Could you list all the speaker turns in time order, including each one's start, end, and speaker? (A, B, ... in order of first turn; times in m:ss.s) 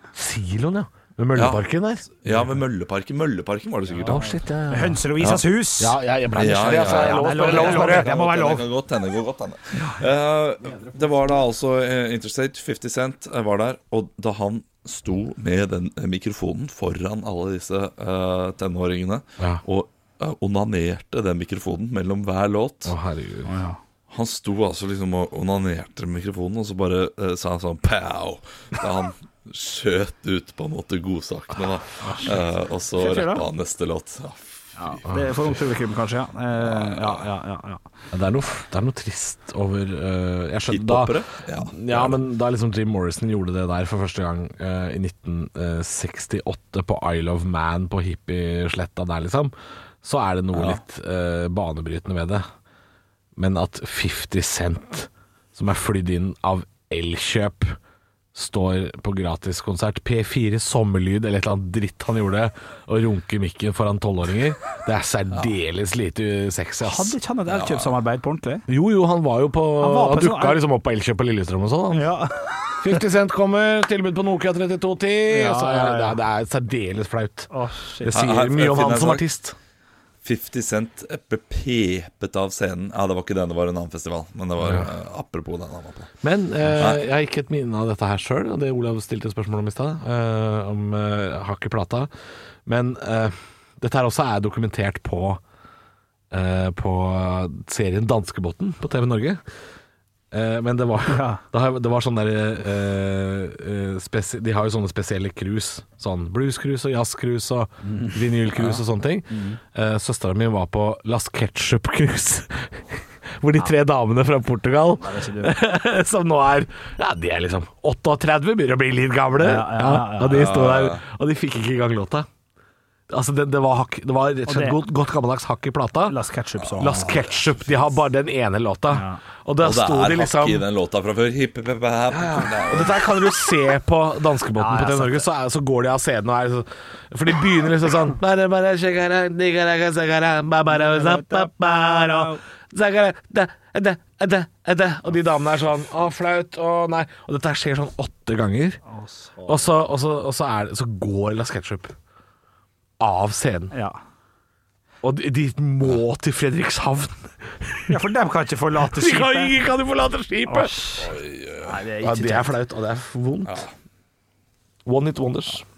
0:00.2-0:02.5 A
0:01.4-0:04.3 B
0:04.0-0:05.1 A
0:04.7-0:06.0 C
0:05.2-0:05.4 B
0:05.8-0:08.2 A
0:06.4-0:23.0 B
0:06.8-0:08.7 C
0:22.8-0:23.5 A
0:23.5-0:23.8 C
0:24.1-0:35.0 B
0:32.1-0:32.3 A
0:33.0-0:33.4 C
0:34.8-0:37.8 C
0:35.1-0:35.4 A
0:36.6-0:37.2 B
0:38.1-0:52.4 A
0:40.7-0:42.2 B
0:50.6-0:50.8 B
0:53.4-0:57.8 A
0:58.3-1:07.2 A
1:06.8-1:08.7 C
1:07.5-1:07.9 B
1:08.7-1:12.1 A
1:09.8-1:10.6 C
1:11.9-1:12.9 C
1:12.8-1:19.6 A
1:15.3-1:16.2 C
1:17.5-1:18.1 C
1:18.1-1:19.2 B
1:20.2-1:26.1 B
1:24.6-1:24.9 A
1:26.2-1:32.1 A
1:26.8-1:27.0 B
1:32.7-1:35.4 A
1:36.3-1:39.4 A
1:40.3-2:02.3 A
1:41.1-1:41.4 C
1:47.8-1:48.7 C
1:49.3-1:49.6 C
1:55.0-1:55.6 C
1:59.4-2:00.5 C
2:00.3-2:01.0 B
2:03.1-2:06.2 A
2:04.5-2:04.8 C
2:06.1-2:07.2 C
2:06.8-2:07.2 B
2:06.8-2:10.7 A
2:08.9-2:09.2 C
2:09.6-2:13.1 B
2:12.1-2:28.8 A
2:14.6-2:15.3 C
2:20.7-2:22.4 C
2:28.9-2:29.6 C
2:29.5-2:31.9 A
2:33.0-2:33.7 A
2:33.7-2:34.0 C
2:35.0-2:38.0 A
2:37.9-2:39.6 C
2:38.8-2:40.7 A
2:40.5-2:41.1 C
2:41.0-2:41.8 B
2:41.6-2:42.5 C
2:42.0-2:43.6 A
2:43.5-2:43.7 B
2:44.8-2:45.6 A